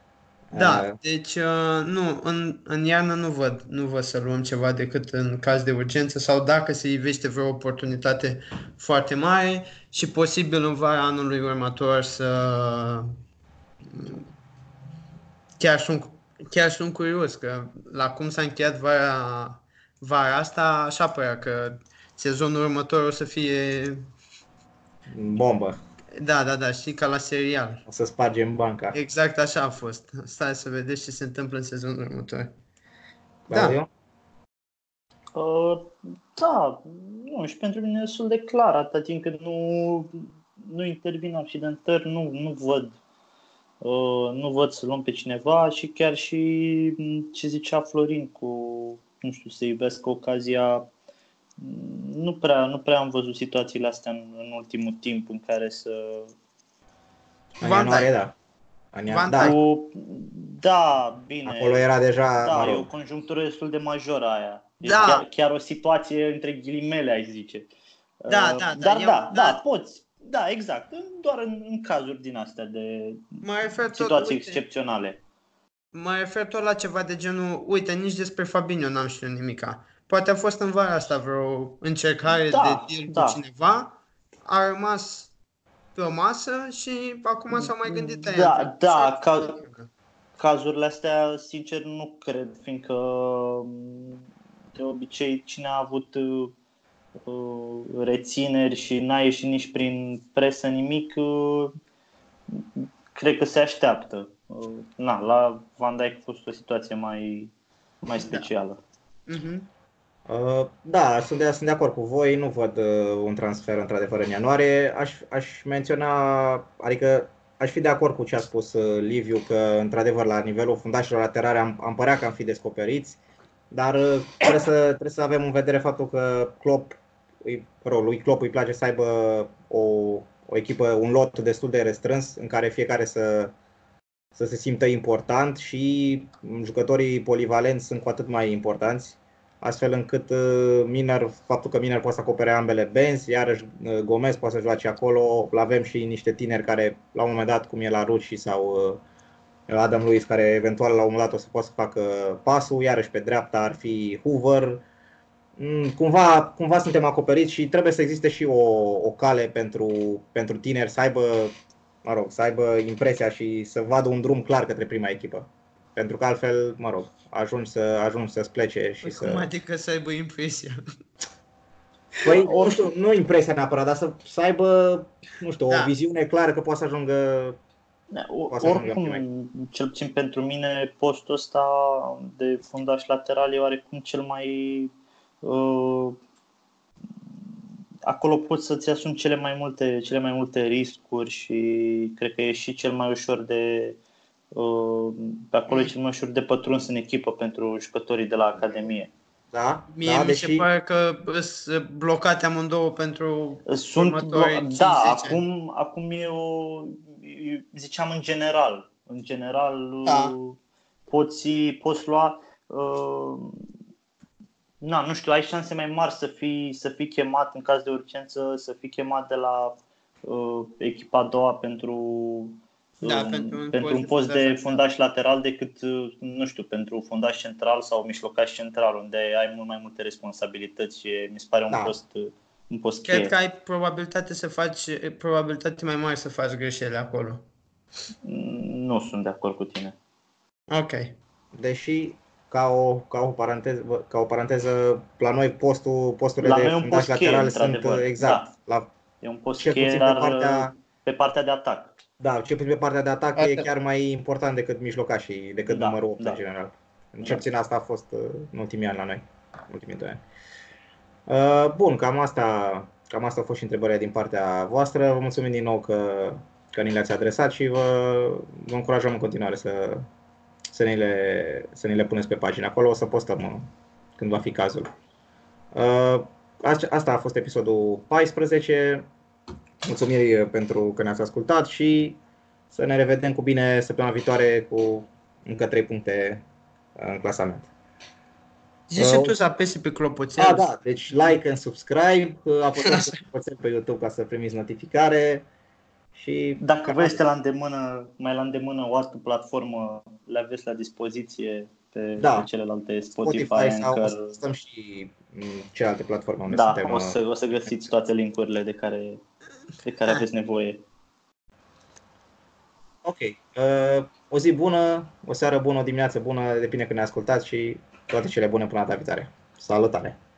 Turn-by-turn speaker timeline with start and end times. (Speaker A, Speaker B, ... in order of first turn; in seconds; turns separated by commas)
Speaker A: 0.5-1.0, Speaker B: 0.5-13.1, Speaker B: 13.9-14.3, Speaker B: 15.6-24.1, Speaker A: 25.1-25.8, Speaker B: 26.1-27.8, Speaker A: 27.9-29.0, Speaker B: 28.9-32.5, Speaker B: 33.5-33.8, Speaker A: 33.5-33.9, Speaker C: 35.4-43.0, Speaker C: 43.8-50.9, Speaker C: 51.6-56.3, Speaker A: 57.6-58.4, Speaker B: 57.6-58.1, Speaker A: 58.9-59.6, Speaker B: 59.1-59.6, Speaker C: 59.4-61.9, Speaker A: 61.5-62.9, Speaker C: 62.4-67.7, Speaker B: 64.8-65.2, Speaker C: 68.2-75.2, Speaker B: 68.3-69.6, Speaker B: 73.4-74.6, Speaker B: 75.9-85.3, Speaker C: 82.3-83.4, Speaker B: 86.0-89.9, Speaker C: 87.5-89.6, Speaker C: 90.4-94.2, Speaker C: 94.8-96.5, Speaker C: 97.2-101.8, Speaker C: 102.5-107.5, Speaker C: 108.0-108.8, Speaker B: 109.3-109.7, Speaker A: 110.3-123.2, Speaker A: 123.7-133.5, Speaker A: 134.4-149.0, Speaker A: 149.7-154.8, Speaker A: 155.6-169.5, Speaker B: 169.0-170.8, Speaker A: 172.2-177.6, Speaker C: 172.2-172.9, Speaker B: 175.7-175.9, Speaker C: 178.1-186.2, Speaker A: 178.5-179.2, Speaker C: 188.1-194.0, Speaker C: 194.5-199.1, Speaker A: 199.5-200.7, Speaker B: 199.9-205.4, Speaker C: 203.7-210.6, Speaker B: 210.1-210.3, Speaker C: 211.1-213.6, Speaker C: 214.8-233.3, Speaker B: 223.0-224.8, Speaker A: 231.7-231.9, Speaker B: 233.0-237.4, Speaker C: 238.2-240.0, Speaker B: 240.7-241.2, Speaker A: 241.5-248.9, Speaker C: 246.4-248.5, Speaker C: 249.2-252.0, Speaker A: 249.6-250.7, Speaker A: 252.2-260.2, Speaker B: 253.4-253.7, Speaker C: 255.7-256.4, Speaker A: 261.3-270.1, Speaker A: 270.7-274.9, Speaker A: 275.7-279.1, Speaker A: 279.8-282.2, Speaker A: 282.7-286.4, Speaker A: 287.0-287.7, Speaker B: 288.9-290.7, Speaker A: 289.0-289.3, Speaker A: 290.4-295.5, Speaker A: 296.1-297.2, Speaker C: 296.6-304.4, Speaker A: 302.2-302.5, Speaker A: 303.2-307.7, Speaker C: 306.5-309.2, Speaker C: 309.8-310.8, Speaker A: 313.0-320.2